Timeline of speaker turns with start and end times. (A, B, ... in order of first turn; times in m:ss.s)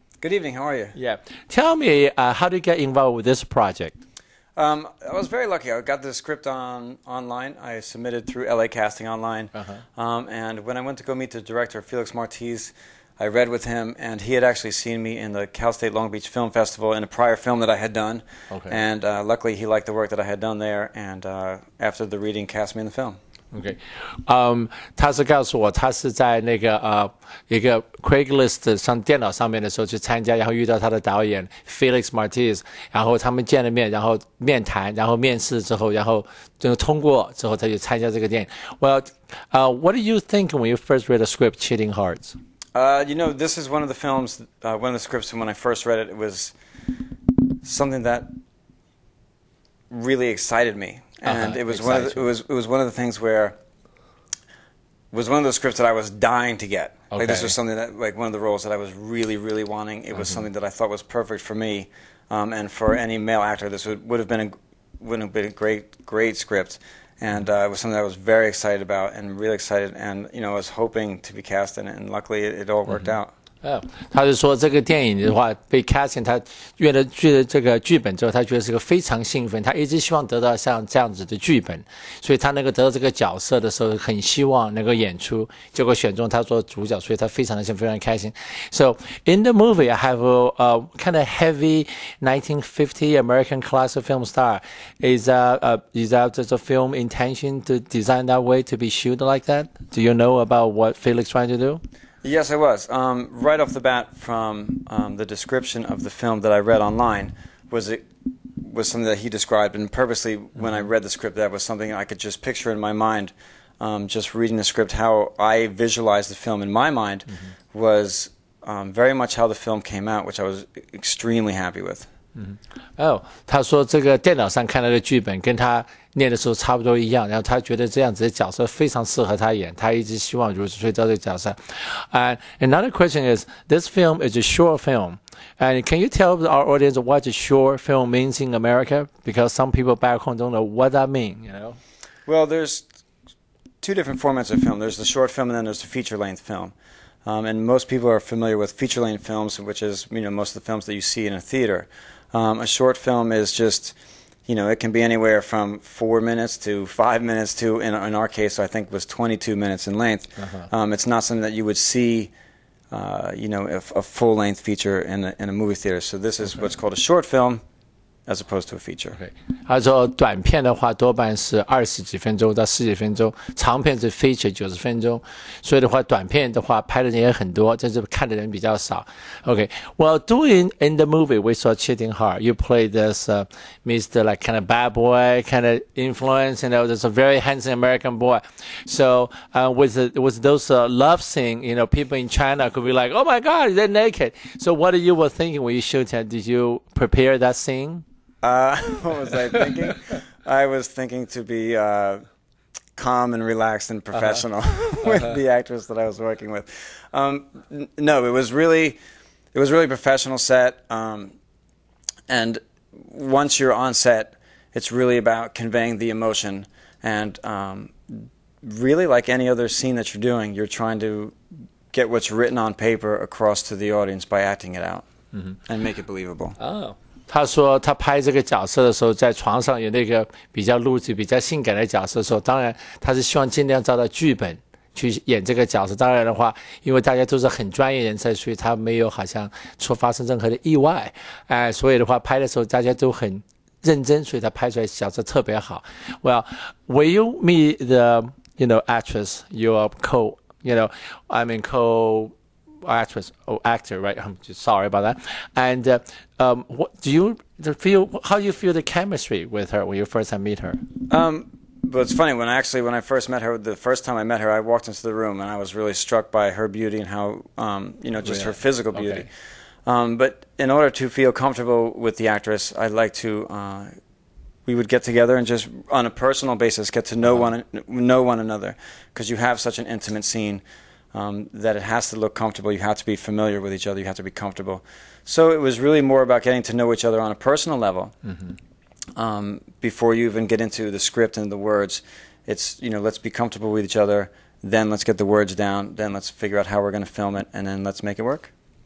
0:00.2-0:01.0 A
0:01.0-0:04.0 B
0:04.6-0:23.2 A
0:09.6-0:09.8 B
0:18.5-0:18.8 B
0:23.5-0:42.4 B
0:42.7-0:46.6 A
0:47.6-0:48.3 A
0:49.9-0:53.6 A
0:51.3-0:52.2 B
0:55.1-1:13.3 A
0:57.1-0:57.6 B
1:13.6-1:41.8 B
1:42.2-1:48.0 A
1:48.6-2:02.1 A
2:02.4-2:21.8 B
2:22.3-2:22.9 A
2:23.8-2:26.7 A
2:27.2-2:34.0 A
2:34.5-2:42.3 A
2:42.9-2:47.6 A
2:48.3-2:49.2 A
2:49.2-3:18.0 B
3:18.4-3:22.2 A
3:23.0-3:29.0 A
3:29.5-3:31.4 A
3:32.3-3:41.4 A
3:41.9-3:45.1 A
3:45.7-3:46.6 A
3:46.6-4:12.3 B
4:12.8-4:20.8 B
4:21.1-4:29.3 A
4:28.2-4:29.2 B
4:29.9-4:33.9 A
4:34.7-4:48.2 A
4:49.2-4:58.5 A